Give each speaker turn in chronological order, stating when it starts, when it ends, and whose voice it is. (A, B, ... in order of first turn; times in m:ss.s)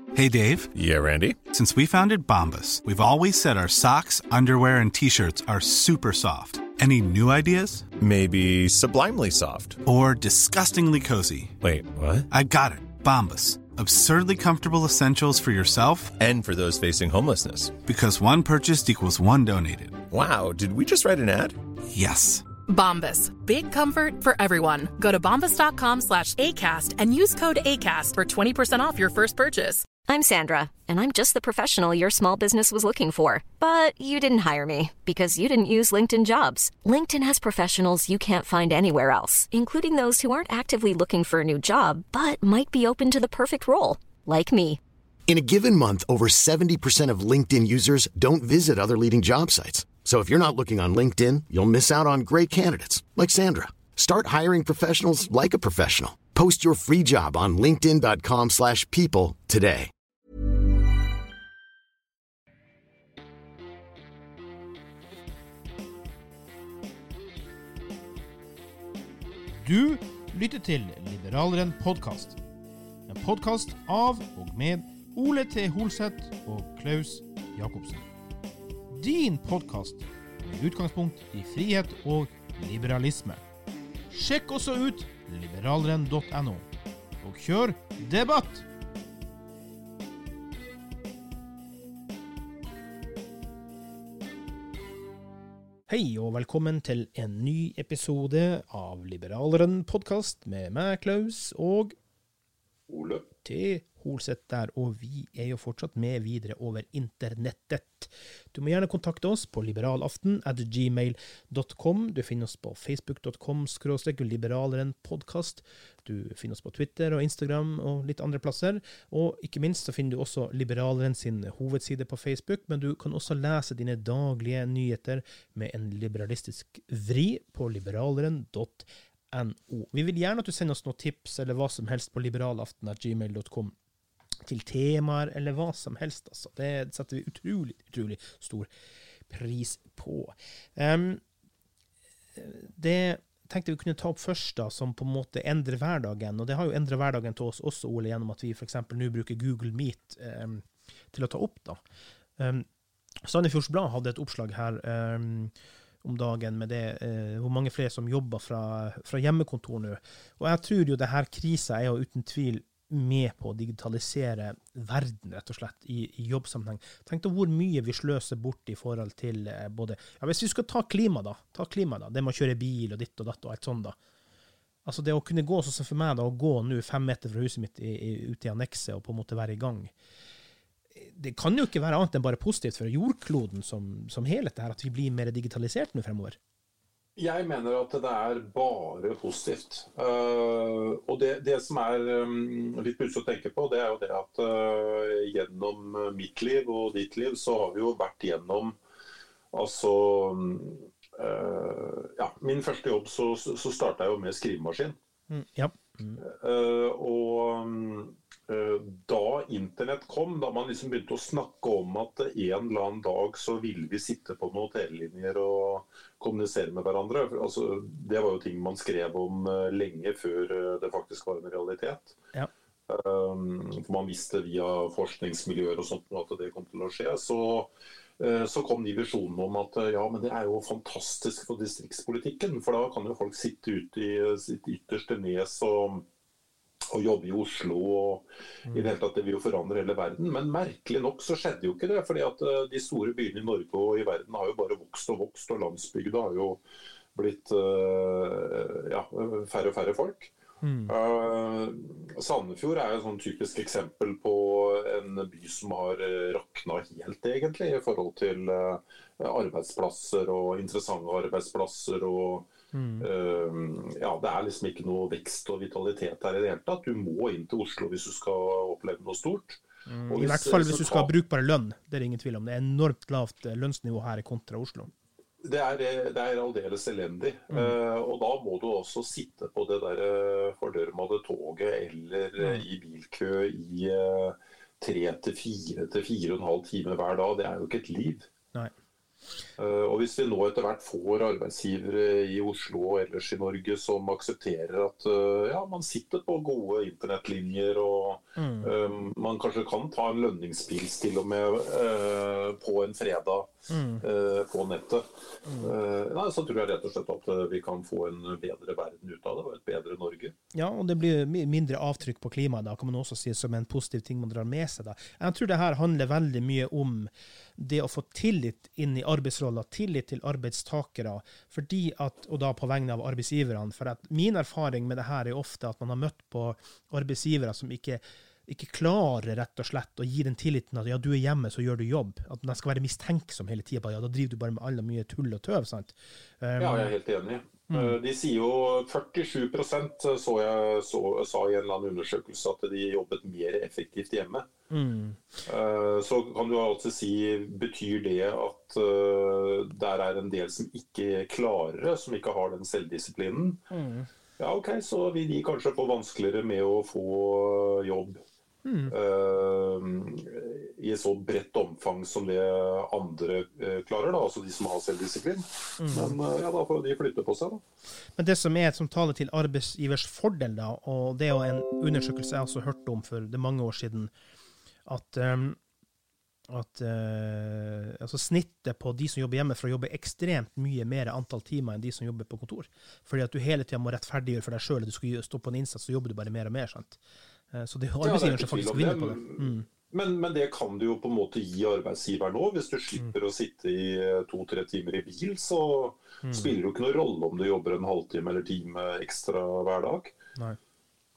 0:00.1-0:00.7 A
0:00.7-0:01.4 B
0:01.5-0:07.9 A
0:08.0-0:09.8 B
0:09.8-0:11.6 A
0:11.6-0:12.3 B
0:12.3-0:16.1 A
0:16.2-0:17.7 B
0:17.8-0:20.0 A
0:20.1-0:21.6 B
0:21.9-0:22.5 A
0:22.7-0:29.9 C
0:30.0-0:44.8 D
0:45.3-0:59.9 E
1:09.6-1:12.4 F
1:13.1-1:18.0 F
1:18.9-1:23.4 F
1:24.1-1:26.6 F
1:27.2-1:28.6 F
1:35.9-1:41.9 F
1:42.9-1:43.3 G
1:43.4-2:13.7 F
2:14.4-2:18.7 F
2:19.3-2:21.2 F
2:22.4-2:31.8 F
2:32.4-2:32.6 F
2:33.2-2:54.0 F
2:54.8-2:59.9 F
3:01.0-3:06.4 F
3:07.2-3:18.8 G
3:19.5-3:25.0 G
3:25.3-3:26.2 F
3:26.2-3:42.2 G
3:42.9-3:56.0 G
3:56.9-4:06.6 G
4:07.1-4:10.3 G
4:10.6-4:10.9 F
4:10.9-4:22.5 G
4:22.7-4:23.1 F
4:23.0-4:31.1 G
4:29.9-4:34.9 F
4:35.4-4:48.3 G
4:42.4-4:42.6 F
4:49.6-5:03.5 G
4:58.4-4:58.7 F
5:03.7-5:04.0 F
5:04.0-5:05.1 G
5:05.5-5:05.7 F
5:05.6-5:10.3 G
5:10.5-5:36.9 F
5:36.6-5:44.4 G
5:37.7-5:38.0 F
5:44.7-5:45.2 F
5:45.4-5:53.6 G
5:53.7-5:54.1 F
5:54.4-5:58.2 G
5:58.6-5:58.9 F
5:58.9-6:07.6 G
6:05.8-6:06.2 F
6:08.2-6:14.1 F
6:14.8-6:15.6 F
6:16.5-6:27.0 F
6:27.5-6:29.6 F
6:28.0-6:40.1 G
6:36.2-6:36.5 F